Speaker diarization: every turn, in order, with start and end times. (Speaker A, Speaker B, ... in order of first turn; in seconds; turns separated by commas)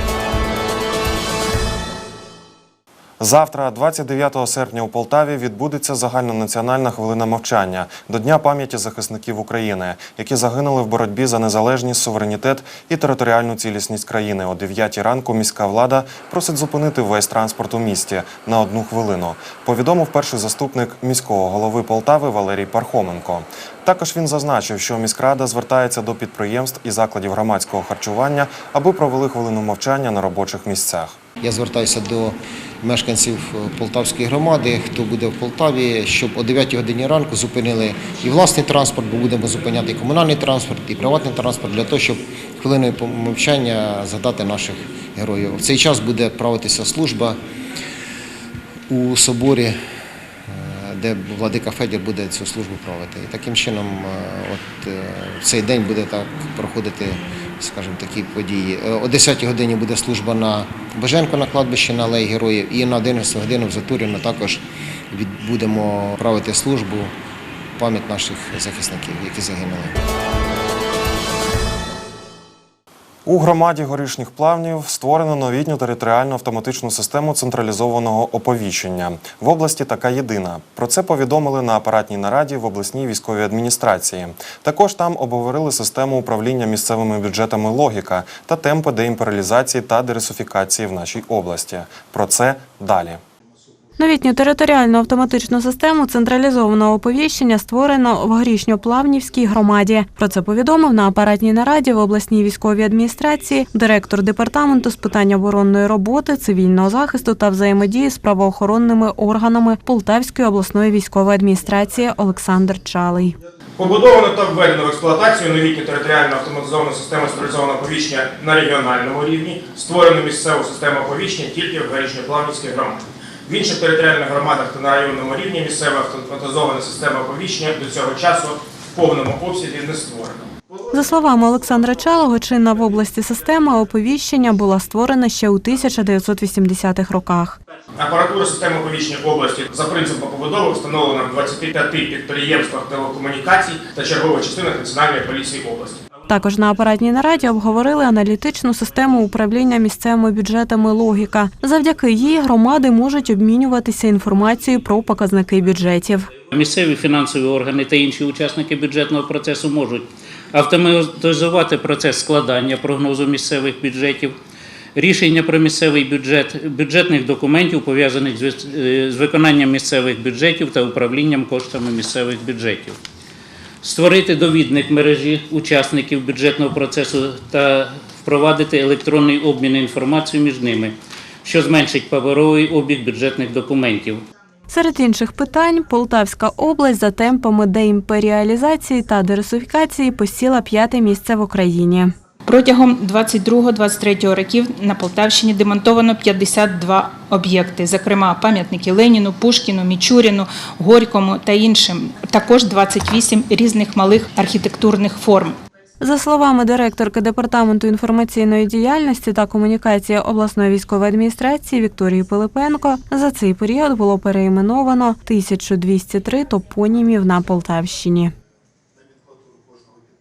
Speaker A: 3.2-31.2, Speaker B: 31.4-47.4, Speaker B: 48.9-49.8, Speaker B: 50.5-67.1, Speaker B: 67.8-69.9, Speaker A: 73.2-93.2, Speaker C: 94.0-113.4, Speaker D: 113.8-130.4, Speaker C: 130.9-137.6, Speaker D: 138.0-146.0, Speaker C: 146.3-156.3, Speaker E: 156.5-164.4, Speaker E: 164.9-173.0, Speaker E: 173.8-184.2, Speaker C: 184.7-192.1, Speaker F: 192.6-196.9, Speaker E: 195.1-195.8, Speaker F: 197.4-201.9, Speaker E: 198.8-199.6, Speaker F: 202.4-205.5, Speaker C: 206.0-218.3